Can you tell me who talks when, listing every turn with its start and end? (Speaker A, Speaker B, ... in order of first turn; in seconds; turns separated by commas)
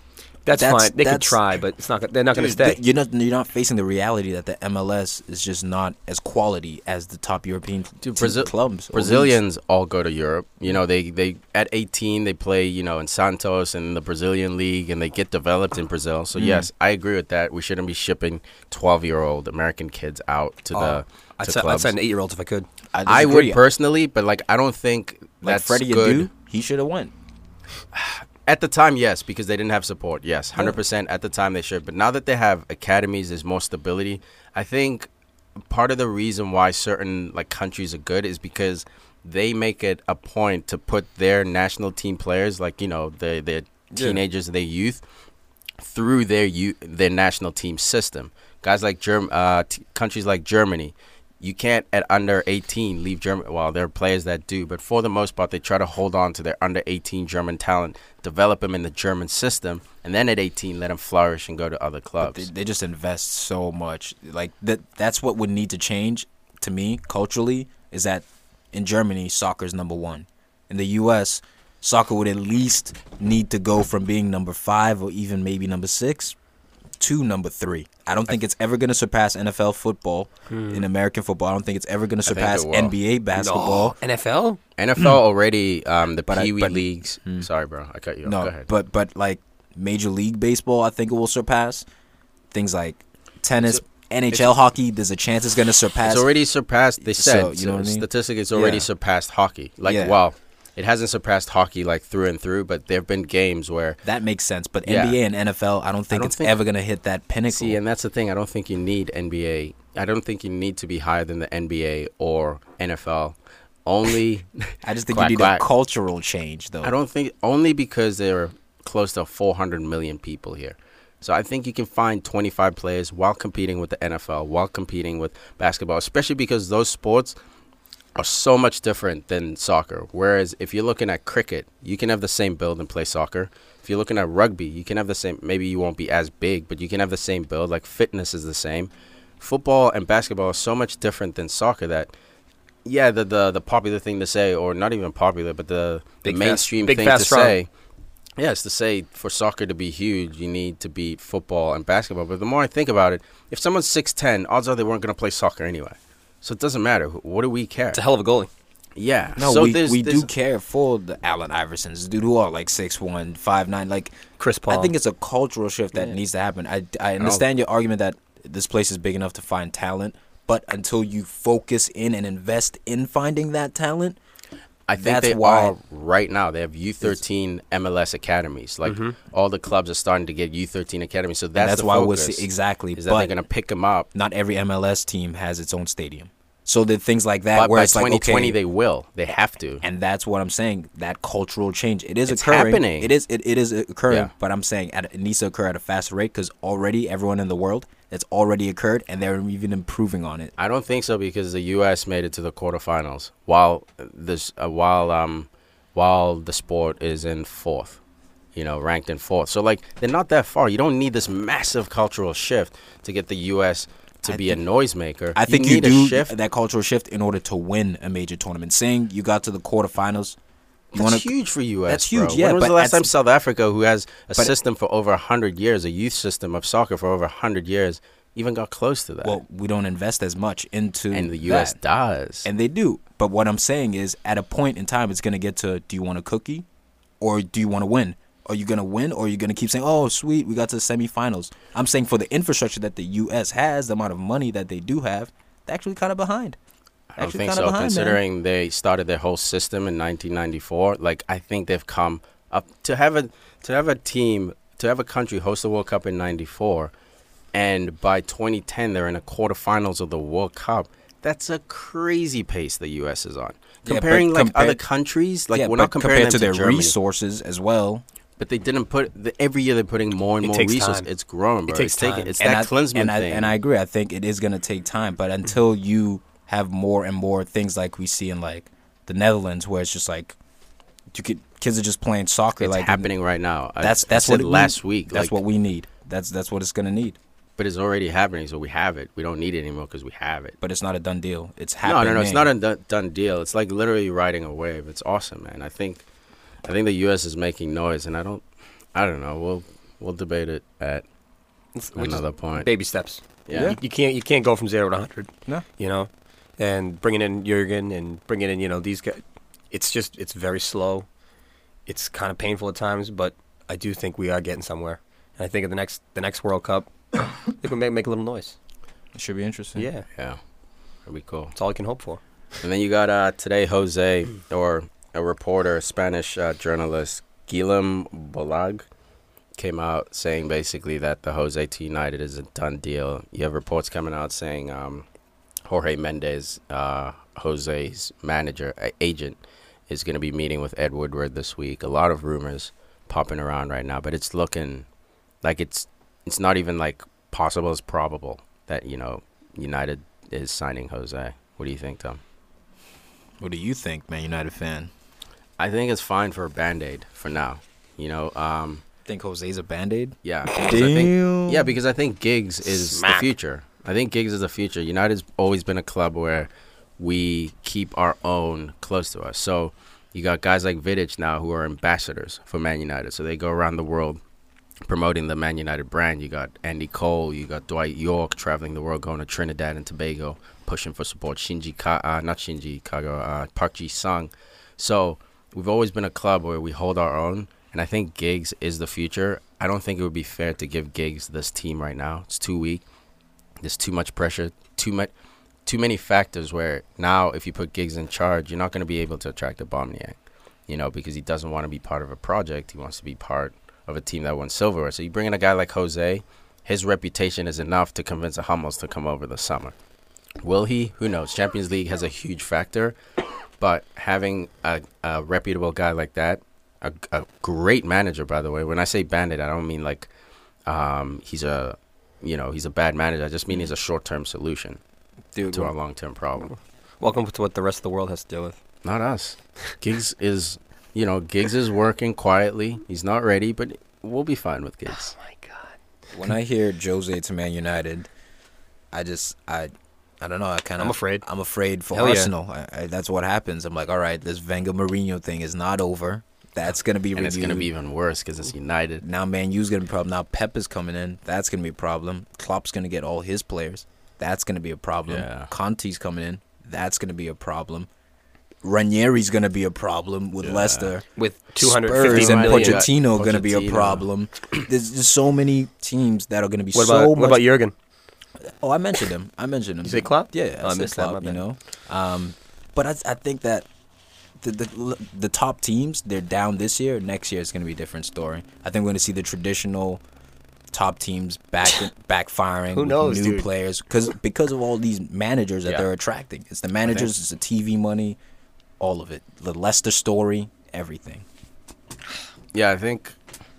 Speaker A: 0.5-2.8, Speaker B: 0.5-1.4, Speaker B: 2.3-9.4, Speaker C: 8.0-21.9, Speaker B: 16.4-16.7, Speaker A: 20.7-22.7, Speaker B: 22.9-23.6, Speaker C: 23.1-26.3, Speaker B: 25.4-27.1, Speaker C: 27.9-35.1, Speaker C: 35.6-45.0, Speaker B: 43.9-44.2, Speaker C: 45.8-62.5, Speaker B: 62.2-76.3, Speaker B: 77.0-84.0, Speaker A: 80.5-80.9, Speaker C: 82.2-82.9, Speaker A: 83.3-84.6, Speaker C: 84.8-88.7, Speaker B: 86.3-87.5, Speaker B: 88.2-91.8, Speaker B: 92.5-96.3, Speaker C: 96.0-104.0, Speaker B: 97.0-98.9, Speaker B: 99.8-100.2, Speaker B: 104.0-107.8, Speaker C: 104.8-105.2, Speaker C: 106.1-106.5, Speaker C: 107.5-115.6, Speaker B: 114.8-116.9, Speaker C: 116.8-127.3, Speaker C: 128.2-142.1, Speaker C: 142.8-147.7, Speaker A: 146.2-147.5, Speaker C: 148.4-158.0, Speaker A: 157.9-158.5, Speaker C: 159.0-160.3, Speaker B: 159.4-164.2, Speaker A: 164.4-164.9, Speaker B: 164.7-174.2, Speaker C: 174.9-184.1, Speaker B: 175.0-175.8, Speaker A: 178.8-179.2, Speaker B: 181.6-183.3, Speaker B: 184.1-188.6, Speaker C: 187.5-189.8, Speaker B: 189.8-200.5, Speaker C: 192.3-193.1, Speaker C: 200.6-208.0, Speaker C: 208.5-216.3, Speaker B: 214.2-214.6, Speaker B: 215.3-220.4, Speaker B: 220.9-221.3, Speaker C: 220.9-229.4, Speaker B: 221.9-223.1, Speaker B: 229.2-231.8, Speaker C: 231.1-232.5, Speaker B: 232.4-236.7, Speaker B: 237.2-246.6, Speaker C: 247.1-256.9, Speaker B: 247.2-248.2, Speaker C: 257.5-266.9, Speaker B: 263.8-264.8, Speaker B: 265.5-268.0, Speaker C: 268.4-273.5, Speaker A: 270.4-271.1, Speaker A: 271.7-272.3, Speaker B: 272.4-280.4, Speaker B: 281.1-283.1, Speaker C: 282.6-285.4, Speaker B: 283.8-287.2, Speaker C: 287.6-290.6, Speaker B: 290.6-292.5, Speaker C: 291.8-296.0, Speaker C: 296.6-298.4, Speaker C: 298.9-301.0, Speaker A: 301.7-311.1, Speaker C: 301.9-302.7, Speaker C: 303.4-303.8, Speaker B: 303.5-303.8, Speaker A: 311.9-318.6, Speaker B: 319.1-319.9, Speaker A: 319.8-320.1, Speaker C: 321.1-321.5, Speaker A: 321.5-322.2, Speaker C: 322.6-328.8, Speaker C: 329.6-335.1, Speaker C: 335.6-344.9, Speaker C: 345.4-352.2, Speaker B: 353.4-354.9, Speaker C: 355.6-358.8, Speaker B: 359.1-361.8, Speaker C: 360.2-374.2, Speaker A: 362.7-363.3, Speaker C: 374.8-392.8, Speaker C: 393.6-395.1, Speaker C: 395.6-400.1, Speaker C: 400.7-409.7, Speaker C: 410.4-413.0, Speaker C: 413.6-420.1, Speaker C: 420.7-424.8, Speaker B: 425.3-425.7, Speaker C: 425.5-426.5, Speaker A: 427.0-428.6, Speaker C: 428.8-435.1, Speaker A: 434.9-435.8, Speaker B: 436.1-438.1, Speaker B: 438.9-447.7, Speaker A: 440.8-441.2, Speaker A: 441.9-442.3, Speaker C: 447.1-449.0, Speaker B: 449.0-457.9, Speaker C: 455.1-455.5, Speaker B: 458.6-467.4, Speaker C: 460.4-460.9, Speaker A: 461.1-462.8, Speaker C: 461.9-464.0, Speaker A: 466.7-467.7, Speaker B: 468.4-473.7, Speaker A: 469.8-471.4, Speaker B: 474.4-480.0, Speaker B: 480.7-488.2, Speaker A: 482.7-483.5, Speaker C: 486.9-487.1, Speaker B: 488.8-491.2, Speaker C: 492.5-493.1